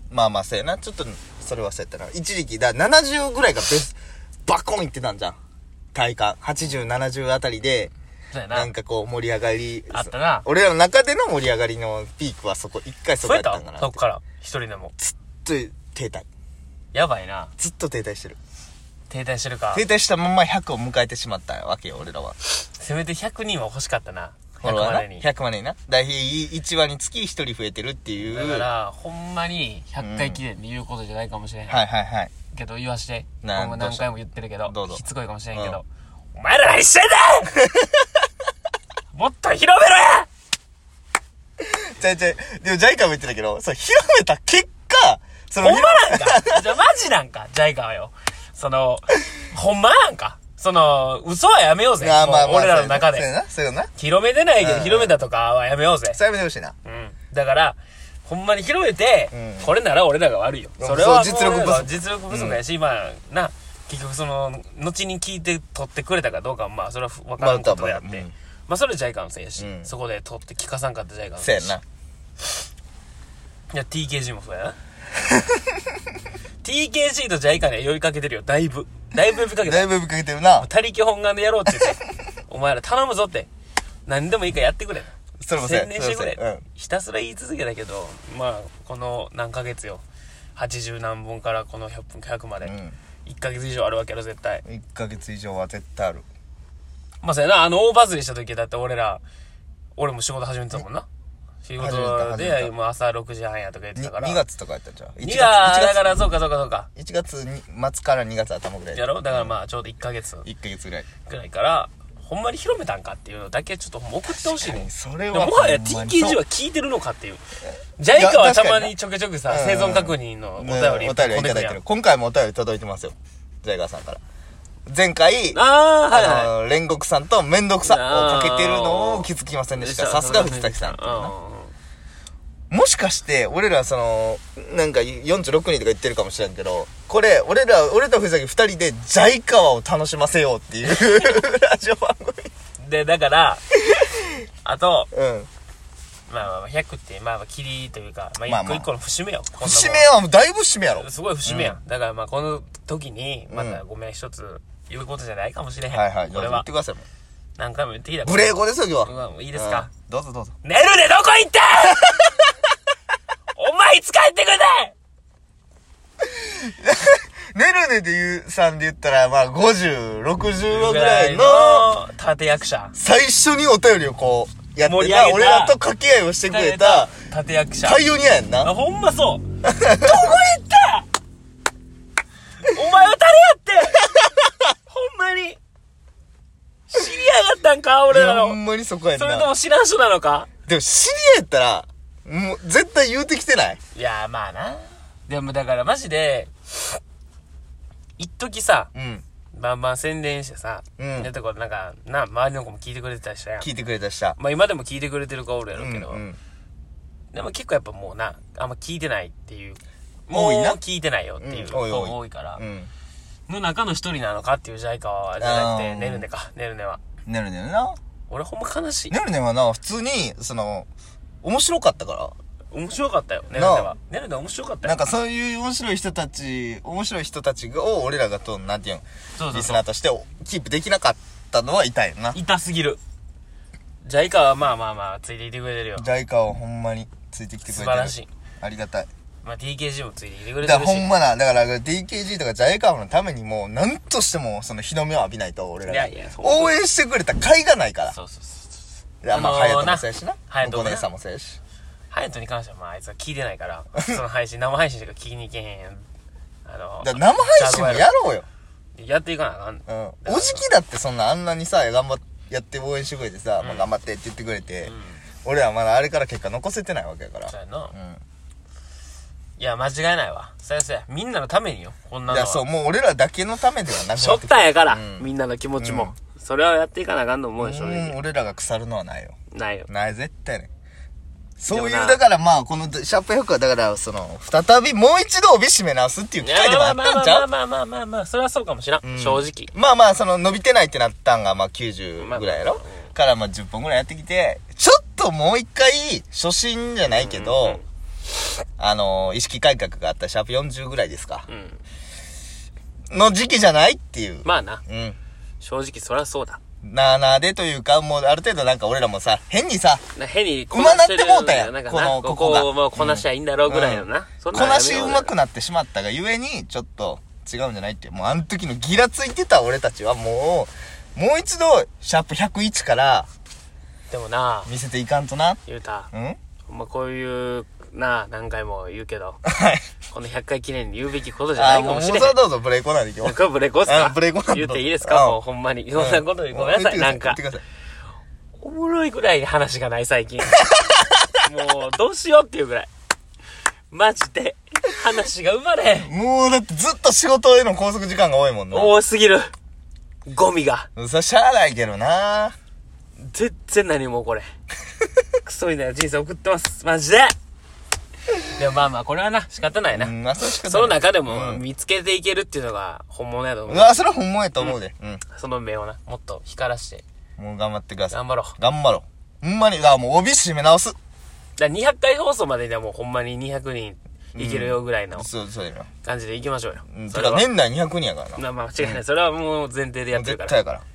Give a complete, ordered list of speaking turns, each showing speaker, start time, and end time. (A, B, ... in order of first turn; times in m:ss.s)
0:00.1-0:05.4 A
0:05.9-0:07.9 A
0:08.3-0:08.7 B
0:08.5-0:14.0 A
0:09.9-0:10.5 B
0:13.2-0:14.9 B
0:15.0-0:16.2 A
0:16.9-0:17.5 B
0:17.6-0:18.4 A
0:19.1-0:19.8 B
0:19.7-0:22.4 A
0:22.4-0:25.2 B
0:24.6-0:28.7 A
0:28.2-0:31.8 B
0:30.0-0:30.4 A
0:31.7-0:32.3 A
0:32.5-0:37.6 B
0:33.4-0:34.1 A
0:34.6-0:35.0 A
0:35.5-0:35.8 A
0:39.1-0:40.3 B
0:41.6-0:46.6 A
0:45.6-0:53.3 B
0:52.0-0:53.9 A
0:54.0-0:56.2 B
0:54.6-0:55.2 A
0:56.1-0:56.8 A
0:56.8-1:11.7 B
0:59.3-0:59.7 A
1:00.8-1:02.6 A
1:07.4-1:08.3 A
1:09.6-1:09.9 A
1:11.4-1:11.8 A
1:13.7-1:14.8 B
1:16.6-1:19.9 B
1:19.6-1:20.7 A
1:20.6-1:23.5 B
1:24.1-1:30.0 B
1:25.4-1:26.6 A
1:30.6-1:34.6 B
1:32.6-1:33.0 A
1:34.6-1:36.2 A
1:37.2-1:39.2 B
1:40.0-1:41.0 B
1:41.6-1:44.4 B
1:41.8-1:42.7 A
1:44.0-1:46.1 A
1:45.2-1:46.9 B
1:47.0-1:49.5 A
1:48.9-1:50.5 B
1:50.4-1:51.1 A
1:51.2-1:57.4 B
1:54.3-1:56.4 A
1:58.0-2:01.8 B
1:58.1-1:58.9 A
1:59.5-2:04.2 A
2:04.9-2:05.6 A
2:05.5-2:06.5 B
2:06.1-2:11.3 A
2:07.8-2:11.7 B
2:12.7-2:22.5 A
2:20.9-2:21.4 B
2:22.8-2:23.6 B
2:23.8-2:24.2 A
2:24.6-2:25.1 B
2:25.1-2:25.5 A
2:26.3-2:30.1 B
2:28.4-2:28.9 A
2:29.6-2:31.8 A
2:30.9-2:36.7 B
2:33.5-2:33.8 A
2:35.9-2:37.0 A
2:37.6-2:39.9 B
2:38.2-2:40.5 A
2:40.6-2:42.4 B
2:43.5-2:44.9 B
2:46.2-2:51.9 A
2:50.7-2:52.9 B
2:53.0-2:57.1 A
2:54.8-2:55.8 B
2:56.5-2:58.0 B
2:57.8-2:58.7 A
2:58.6-3:01.0 B
2:59.6-3:00.3 A
3:02.6-3:04.2 B
3:04.9-3:05.6 B
3:06.9-3:08.6 B
3:08.1-3:09.5 A
3:09.2-3:10.5 B
3:10.7-3:13.8 A
3:13.9-3:17.0 B
3:18.2-3:18.9 B
3:18.9-3:19.2 A
3:19.5-3:23.7 B
3:21.0-3:21.3 A
3:23.6-3:24.4 A
3:24.4-3:26.2 B
3:25.8-3:26.4 A
3:27.3-3:32.6 B
3:30.3-3:30.8 A
3:31.4-3:32.9 A
3:33.5-3:37.0 B
3:35.4-3:36.2 A
3:37.2-3:38.0 A
3:38.3-3:39.2 B
3:39.1-3:40.9 A
3:41.4-3:42.3 A
3:42.7-3:45.0 B
3:43.5-3:43.9 A
3:44.8-3:52.4 A
3:49.4-3:49.8 B
3:52.3-3:53.0 B
3:54.0-3:56.1 B
3:56.0-3:59.1 A
3:57.6-3:58.3 B
3:59.4-4:01.1 B
4:00.6-4:08.2 A
4:05.8-4:06.7 B
4:08.1-4:08.7 B
4:09.2-4:11.6 A
4:09.3-4:11.0 B
4:12.1-4:16.0 B
4:16.6-4:18.1 B
4:17.0-4:18.4 A
4:19.0-4:20.6 B
4:19.9-4:24.9 A
4:23.6-4:23.9 B
4:24.8-4:25.2 B
4:25.4-4:28.2 A
4:27.5-4:27.9 B
4:29.6-4:32.6 B
4:32.3-4:35.3 A
4:34.2-4:38.1 B
4:35.8-4:36.1 A
4:37.6-4:39.4 A
4:39.5-4:39.9 B
4:39.9-4:40.7 A
4:41.6-4:47.5 A
4:41.7-4:42.2 B
4:46.4-4:49.7 B
4:49.0-4:57.8 A
4:52.2-4:53.1 B
4:57.1-4:57.8 B
4:58.8-5:01.4 A
5:01.5-5:01.8 B
5:03.1-5:05.2 A
5:04.4-5:04.8 B
5:05.6-5:06.6 B
5:06.8-5:10.0 A
5:10.1-5:15.3 B
5:10.7-5:23.3 A
5:24.1-5:24.7 B
5:24.6-5:25.6 A
5:25.6-5:26.1 B
5:26.1-5:26.4 A
5:26.7-5:29.4 B
5:29.4-5:29.8 A
5:30.1-5:32.4 B
5:31.6-5:35.4 A
5:33.2-5:37.4 B
5:35.9-5:37.6 A
5:38.6-5:40.7 B
5:40.7-5:41.1 A
5:41.4-5:42.9 B
5:43.9-5:46.1 B
5:46.0-5:48.9 A
5:48.7-5:49.5 B
5:50.3-5:50.9 B
5:51.0-5:52.5 A
5:53.2-5:54.4 B
5:55.4-5:57.3 B
5:58.5-6:00.1 B
5:59.9-6:01.6 A
6:00.6-6:04.0 B
6:03.7-6:05.2 A
6:05.3-6:07.0 B
6:07.4-6:11.0 A
6:08.1-6:08.6 B
6:11.6-6:15.3 B
6:14.4-6:15.9 A
6:16.0-6:17.4 B
6:16.9-6:19.0 A
6:18.4-6:20.6 B
6:20.1-6:20.8 A